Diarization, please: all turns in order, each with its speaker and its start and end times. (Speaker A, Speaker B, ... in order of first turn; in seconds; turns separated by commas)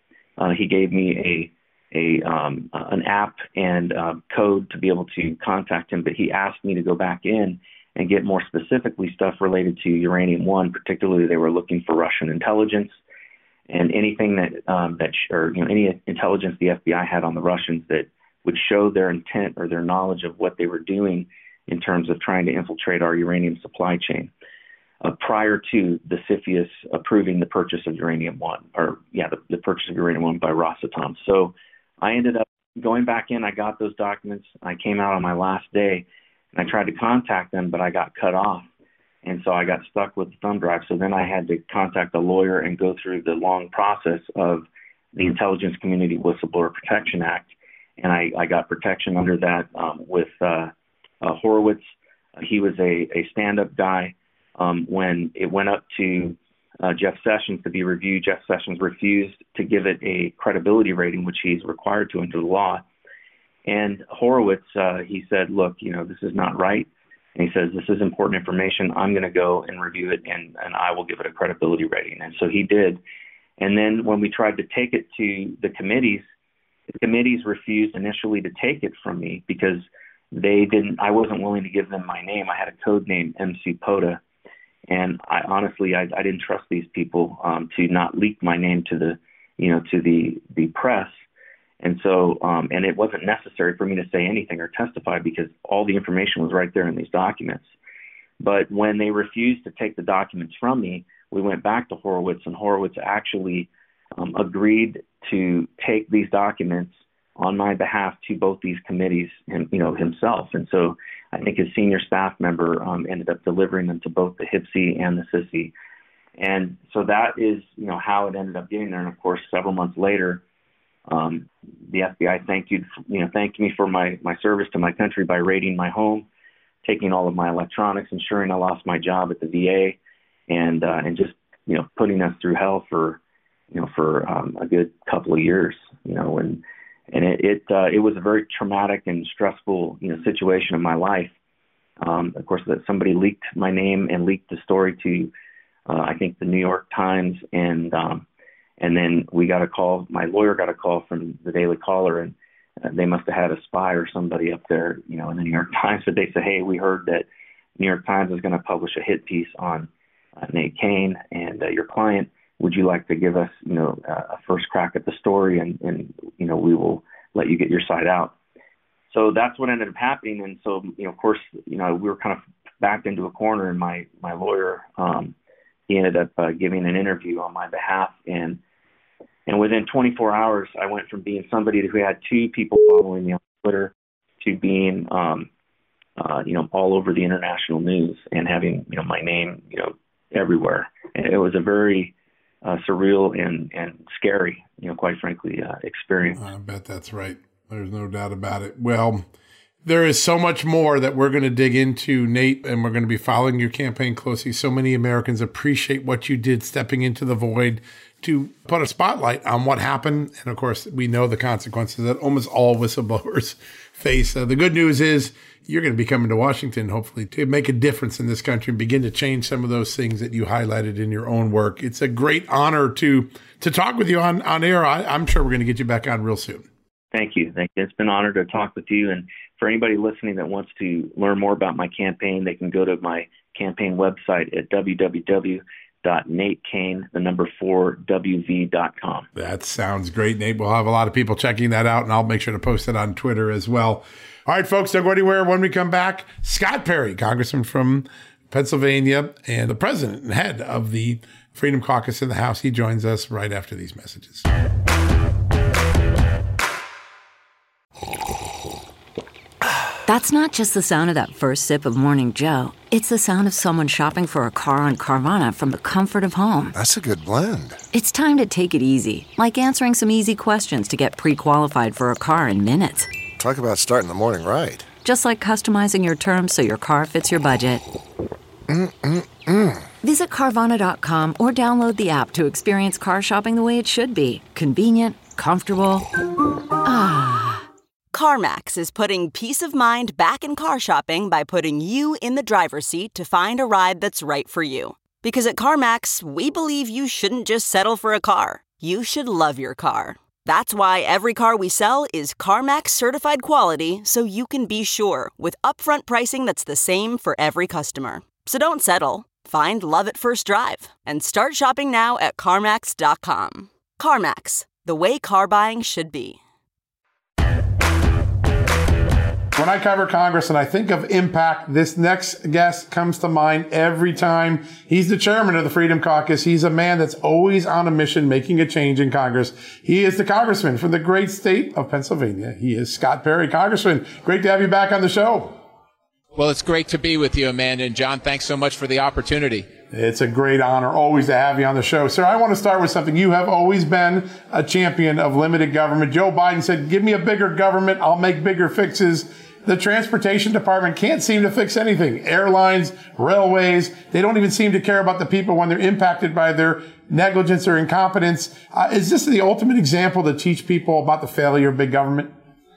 Speaker A: 0.4-13.0, Speaker A: 13.7-24.3, Speaker A: 25.0-38.6, Speaker A: 39.2-50.7, Speaker A: 51.2-51.8, Speaker A: 52.4-62.8, Speaker A: 63.7-73.0, Speaker A: 73.6-76.2, Speaker A: 76.9-84.2, Speaker A: 84.9-91.1, Speaker A: 91.8-97.7, Speaker A: 98.4-115.7, Speaker A: 116.4-120.4, Speaker A: 121.1-126.3, Speaker A: 126.8-130.0, Speaker A: 130.5-133.2, Speaker A: 133.7-141.3, Speaker A: 142.0-145.3, Speaker A: 145.9-148.2, Speaker A: 148.8-157.3, Speaker A: 157.8-159.9, Speaker A: 160.4-168.3, Speaker A: 169.1-175.3, Speaker A: 175.9-178.6, Speaker A: 179.5-185.5, Speaker A: 186.2-192.1, Speaker A: 192.6-196.4, Speaker B: 196.3-199.2, Speaker B: 199.8-226.7, Speaker A: 227.1-239.3, Speaker B: 239.3-254.4, Speaker C: 260.1-266.7, Speaker D: 266.7-267.8, Speaker C: 267.9-273.1, Speaker D: 273.4-274.9, Speaker C: 275.0-277.8, Speaker D: 278.7-279.9, Speaker C: 280.0-286.1, Speaker C: 286.9-287.2, Speaker E: 288.1-316.4, Speaker B: 319.6-335.5, Speaker F: 336.4-339.7, Speaker B: 339.9-362.3